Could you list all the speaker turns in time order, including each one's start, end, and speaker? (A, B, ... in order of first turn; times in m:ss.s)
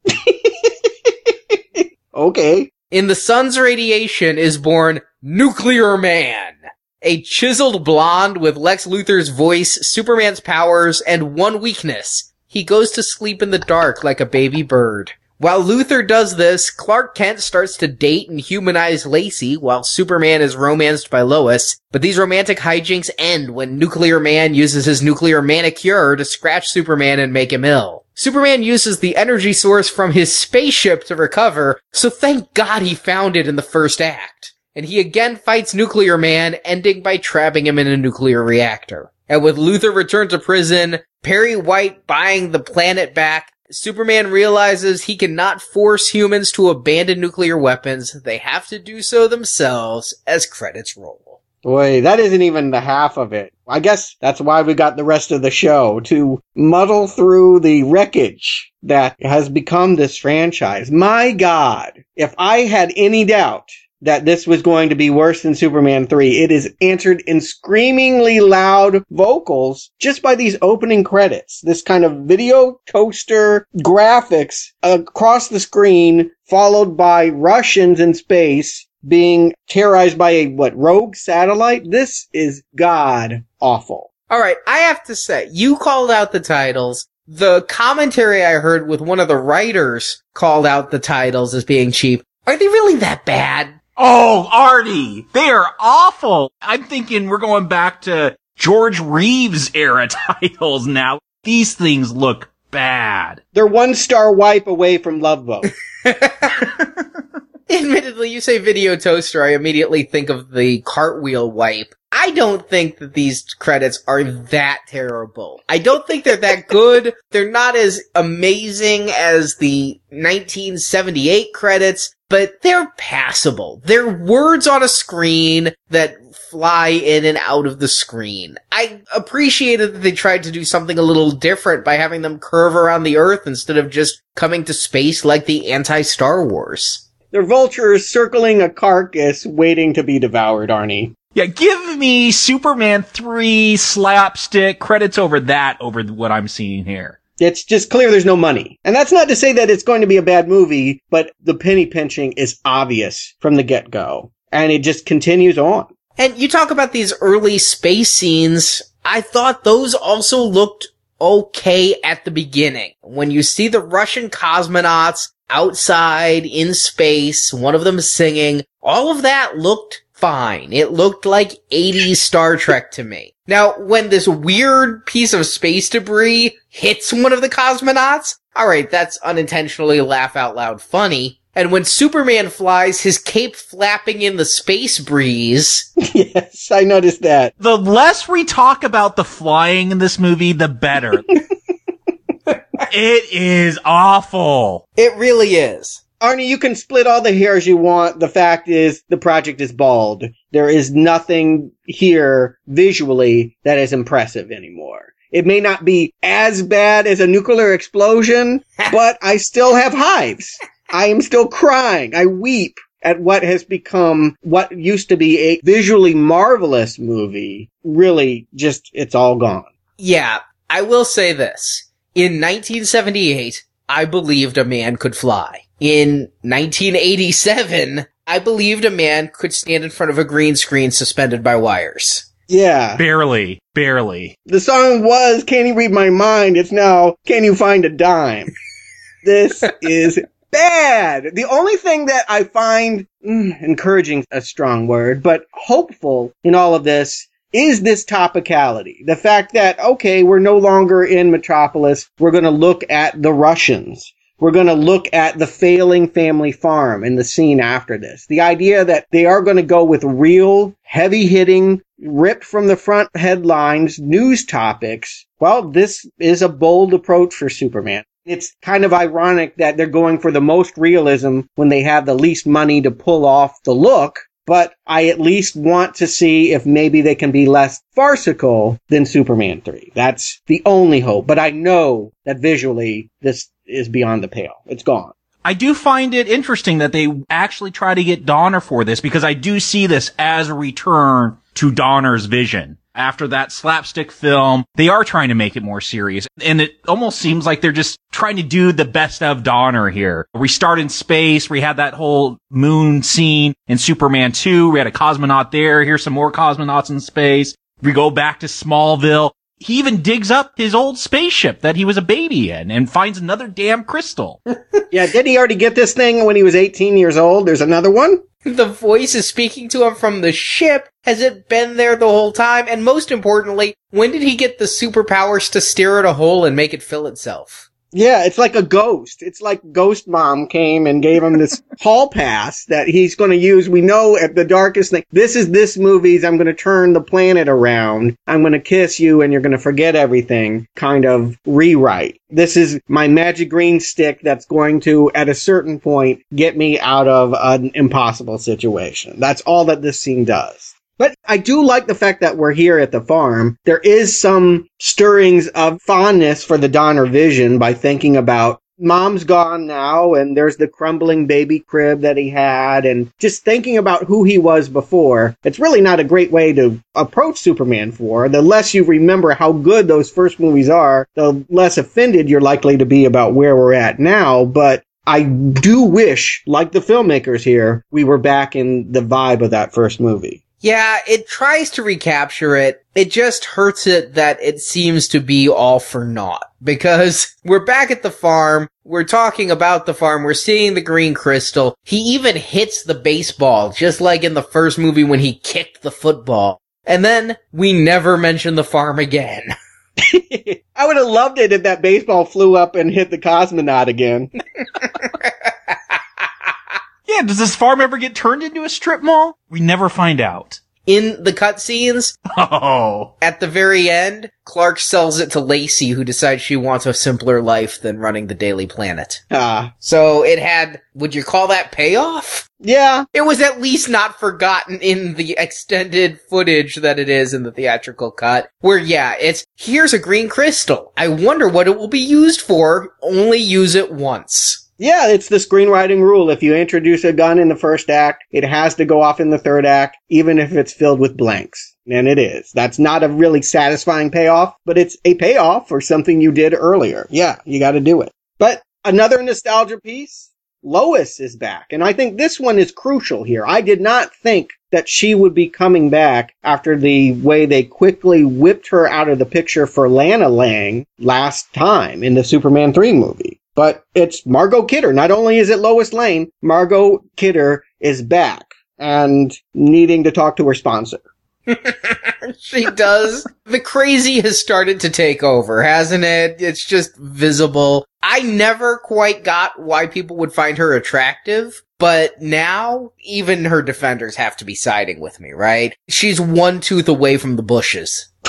0:00.2-0:02.7 A
0:02.9-0:51.4 B
0:51.6-1:24.1 A
1:24.3-1:33.8 B
1:34.0-1:43.4 C
1:43.5-1:45.7 A
1:46.0-1:46.6 B
1:47.7-2:17.0 B
2:17.3-2:21.1 A
2:21.3-2:27.2 C
2:27.4-2:35.9 A
2:36.2-3:05.9 B
3:06.0-3:07.5 A
3:07.6-3:11.3 C
3:12.9-3:14.8 C
3:15.0-3:16.0 B
3:16.2-3:39.7 A
3:40.0-3:52.2 B
3:52.5-3:53.0 A
3:53.0-3:54.3 C
3:54.5-3:58.5 A
3:59.2-4:45.1 A
4:45.4-5:14.4 C
5:14.9-5:18.2 A
5:18.4-5:27.7 B
5:27.9-6:20.4 A
6:20.6-6:39.5 B
6:40.0-6:44.3 A
6:45.0-6:45.7 B
6:47.0-6:50.6 C
6:50.8-6:52.2 B
6:52.3-6:53.1 C
6:53.2-6:59.2 B
6:59.3-6:59.7 A
6:59.8-7:02.4 B
7:02.6-7:03.0 A
7:03.1-7:14.6 B
7:14.8-7:51.0 A
7:51.5-8:08.1 B